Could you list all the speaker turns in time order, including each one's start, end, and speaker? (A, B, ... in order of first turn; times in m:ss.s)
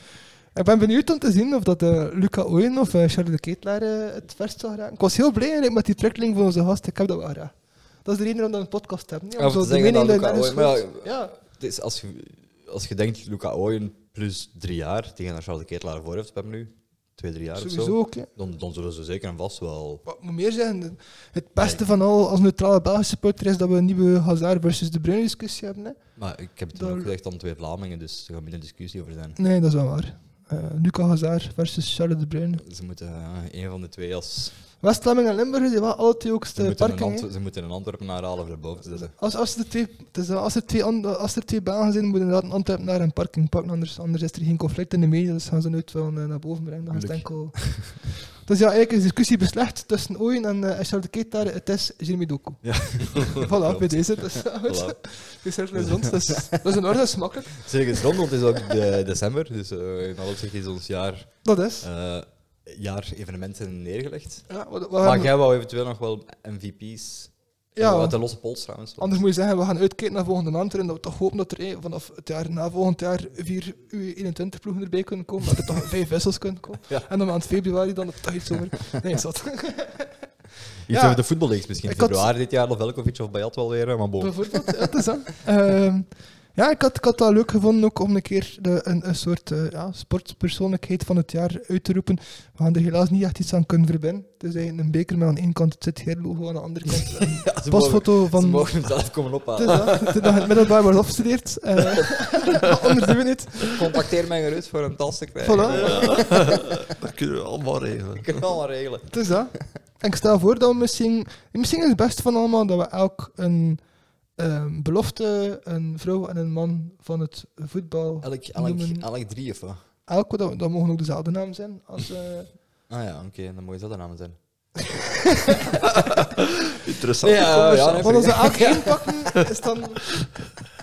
0:00.5-0:11.3 A
0:09.4-0:20.0 B
0:17.6-0:18.3 A
0:20.0-0:26.2 A
0:21.6-0:21.8 B
0:26.2-0:29.4 B
0:26.7-0:27.1 A
0:29.4-0:32.6 A
0:32.6-0:34.6 B
0:34.8-0:37.3 A
0:36.5-0:39.1 B
0:38.9-0:58.2 A
0:46.9-0:48.0 B
0:52.6-0:55.0 B
0:55.7-0:56.9 B
0:57.5-1:04.5 B
1:01.4-1:01.8 A
1:04.5-1:05.3 A
1:05.0-1:09.2 B
1:07.8-1:20.2 A
1:20.9-1:25.0 B
1:20.9-1:22.3 A
1:24.2-1:38.9 A
1:36.9-1:40.3 B
1:39.6-1:44.0 A
1:43.7-1:46.9 B
1:45.4-1:46.4 A
1:45.7-1:48.5 C
1:48.2-1:49.6 B
1:49.1-1:53.8 A
1:54.4-1:59.1 A
1:58.2-1:59.8 B
2:00.1-2:02.5 A
2:02.9-2:04.4 B
2:05.0-2:05.7 A
2:06.1-2:07.9 C
2:07.2-2:09.3 B
2:07.3-2:10.3 A